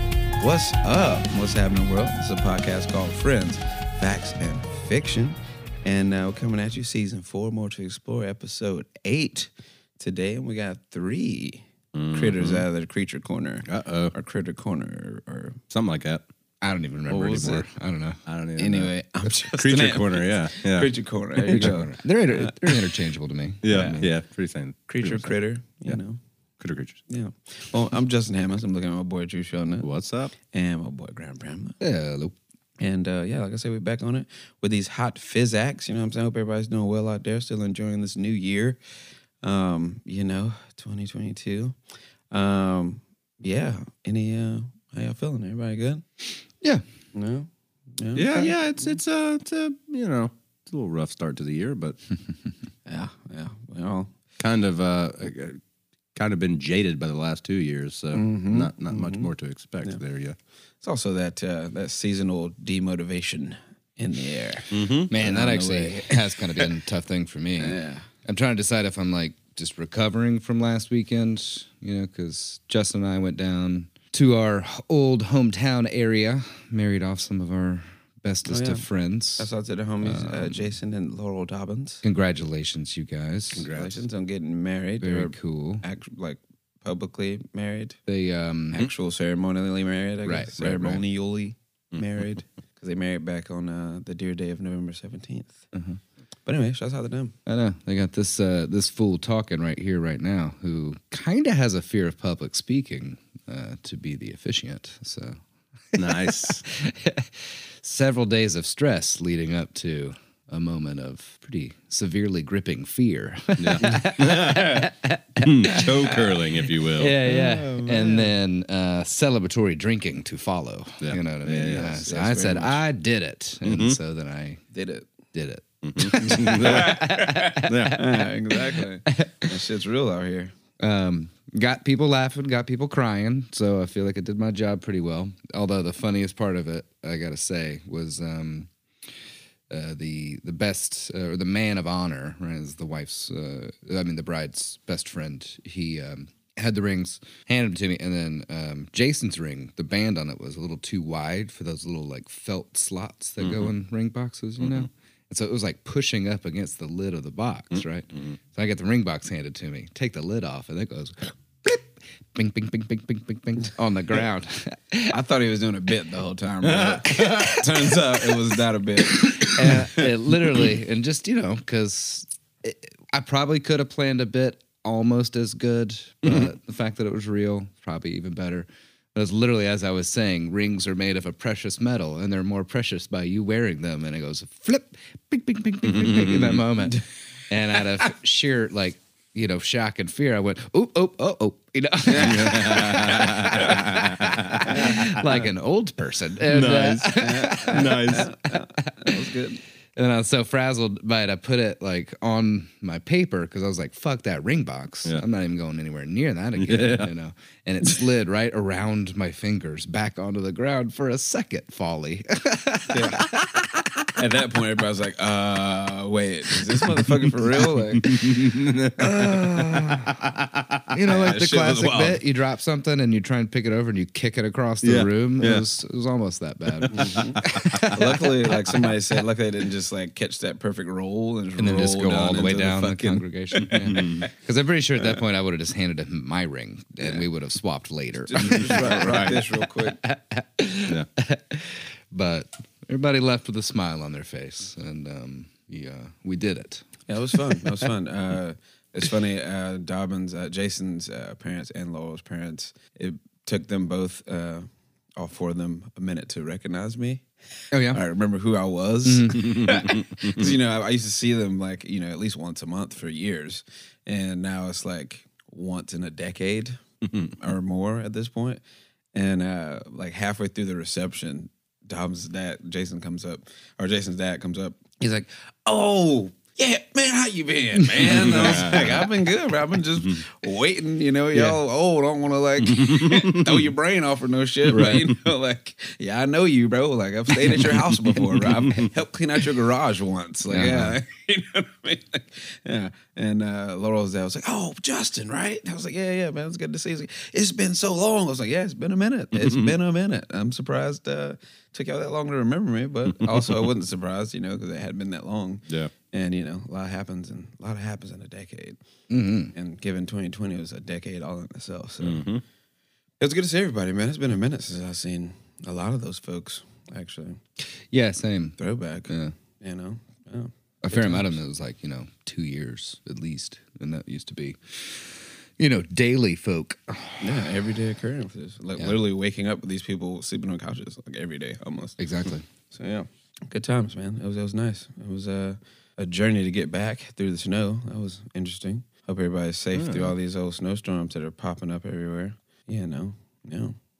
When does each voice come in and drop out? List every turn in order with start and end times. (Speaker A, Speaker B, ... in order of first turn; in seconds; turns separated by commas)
Speaker A: 0.4-15.6, Speaker B: 11.9-12.7, Speaker B: 13.6-14.1, Speaker B: 15.7-16.2, Speaker C: 16.6-18.2, Speaker A: 17.1-17.6, Speaker B: 18.2-18.9, Speaker A: 18.6-22.9, Speaker B: 19.5-20.9, Speaker C: 21.4-24.1, Speaker B: 23.6-25.3, Speaker A: 23.7-23.9, Speaker A: 24.9-26.2, Speaker B: 26.6-27.0, Speaker A: 27.1-29.9, Speaker B: 29.8-30.3, Speaker A: 30.4-31.8, Speaker C: 31.8-32.3, Speaker A: 32.8-38.8, Speaker A: 39.4-41.8, Speaker A: 42.3-46.0, Speaker A: 47.1-48.5, Speaker B: 48.1-52.0, Speaker A: 52.9-54.1, Speaker B: 54.4-55.6, Speaker B: 56.1-60.4, Speaker A: 58.1-59.3, Speaker A: 60.8-66.7, Speaker B: 64.7-65.1, Speaker C: 65.1-79.5, Speaker A: 67.6-68.0, Speaker A: 78.5-78.8, Speaker A: 79.4-82.0, Speaker C: 80.0-80.7, Speaker C: 82.0-83.7, Speaker B: 83.5-84.0, Speaker A: 83.7-88.0, Speaker C: 85.0-85.8, Speaker C: 88.1-88.8, Speaker A: 88.7-95.6, Speaker C: 90.2-91.0, Speaker C: 95.7-96.0, Speaker A: 96.5-97.3, Speaker C: 97.5-105.4, Speaker B: 105.9-106.6, Speaker C: 106.1-124.6, Speaker B: 113.6-117.2, Speaker A: 117.3-118.3, Speaker B: 121.0-121.9, Speaker A: 121.5-122.8, Speaker B: 123.6-124.0, Speaker A: 124.7-125.1, Speaker C: 125.3-129.4, Speaker B: 125.8-127.1, Speaker A: 126.2-130.5, Speaker B: 127.6-128.2, Speaker C: 130.8-138.7, Speaker C: 139.7-165.1, Speaker B: 153.4-153.7, Speaker B: 154.6-154.9, Speaker B: 157.7-158.3, Speaker A: 165.1-170.1, Speaker B: 166.6-167.6, Speaker C: 169.4-199.1, Speaker B: 176.2-176.5, Speaker B: 185.8-186.7, Speaker B: 192.1-195.1, Speaker B: 196.5-198.3, Speaker A: 197.2-199.6, Speaker C: 199.9-213.8, Speaker B: 206.6-207.1, Speaker A: 212.9-213.3, Speaker A: 214.2-218.2, Speaker B: 217.9-220.8, Speaker C: 219.0-220.1, Speaker C: 220.9-228.8, Speaker A: 221.1-222.2, Speaker B: 224.8-225.7, Speaker B: 226.8-227.8, Speaker A: 226.9-234.3, Speaker C: 231.6-246.8, Speaker B: 233.8-234.2, Speaker A: 238.3-240.0, Speaker B: 238.7-239.4, Speaker A: 247.1-257.2, Speaker C: 247.4-247.6, Speaker C: 257.7-258.0, Speaker A: 257.9-266.8, Speaker C: 259.0-259.7, Speaker B: 259.4-260.5, Speaker B: 267.0-267.4, Speaker A: 267.4-268.6, Speaker A: 269.1-308.8, Speaker C: 277.9-279.0, Speaker B: 278.1-278.9, Speaker C: 281.3-281.6, Speaker B: 282.6-283.6, Speaker C: 284.7-285.1, Speaker C: 290.5-291.0, Speaker B: 299.3-299.8, Speaker B: 303.2-303.6, Speaker C: 309.1-309.5, Speaker A: 309.5-312.2, Speaker B: 312.0-312.4, Speaker A: 313.2-317.4, Speaker C: 317.6-319.3, Speaker A: 318.6-321.4, Speaker C: 320.8-327.4, Speaker A: 327.2-332.0, Speaker C: 332.0-332.4, Speaker A: 332.7-343.8, Speaker B: 339.8-340.1